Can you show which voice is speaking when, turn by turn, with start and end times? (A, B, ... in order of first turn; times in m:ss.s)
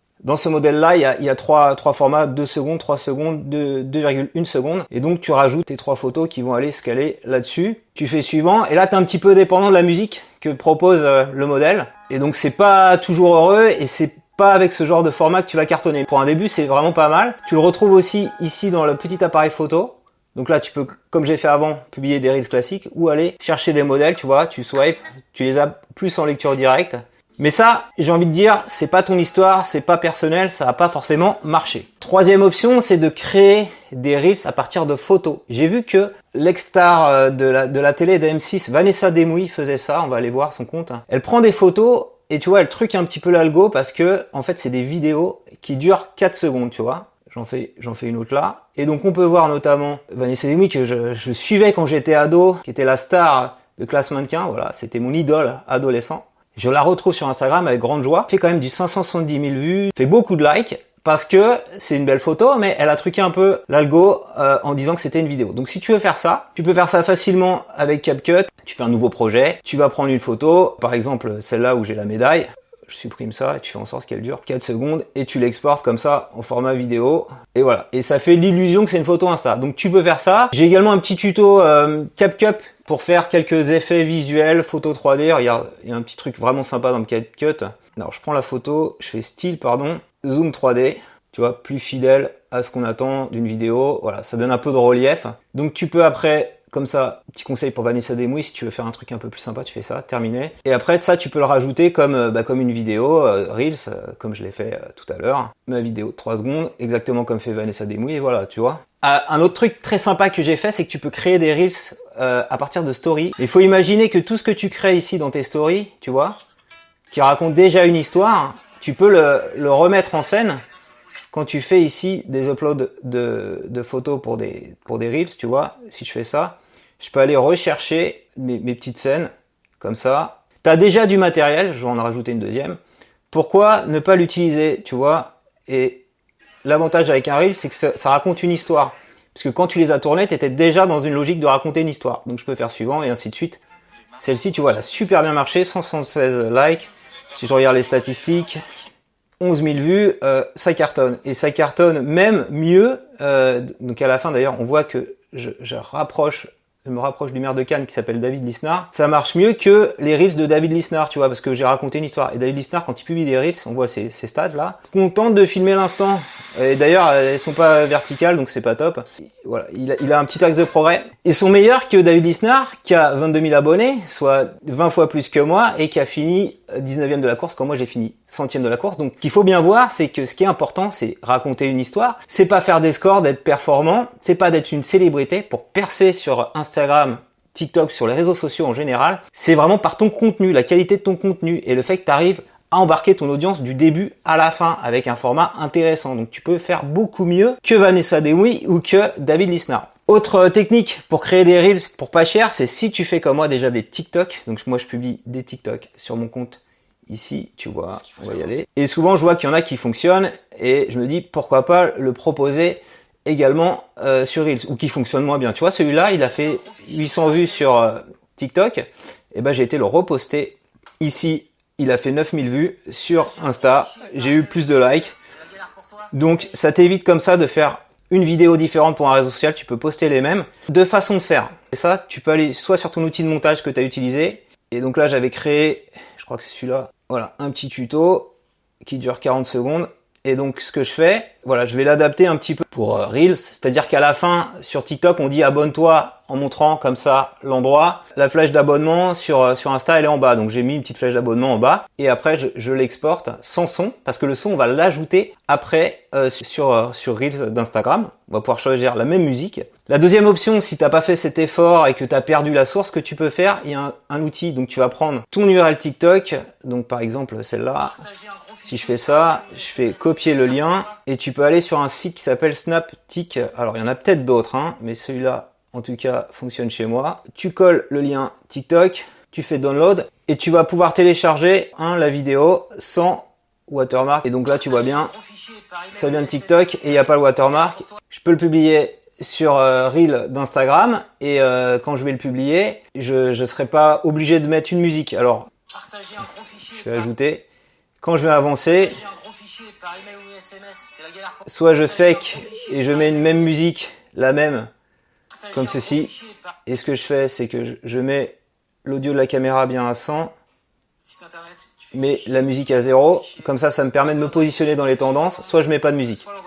0:00.2-1:56.4 A
1:57.1-2:00.6 A
2:01.3-2:12.8 A
2:13.3-2:16.0 A
2:16.6-2:23.6 A
2:24.2-2:28.6 A
2:29.4-3:45.2 A
3:46.0-3:58.3 A
3:58.8-4:45.1 A
4:45.8-4:57.4 A
4:58.0-5:04.7 A
5:05.5-5:10.3 A
5:11.8-5:16.3 A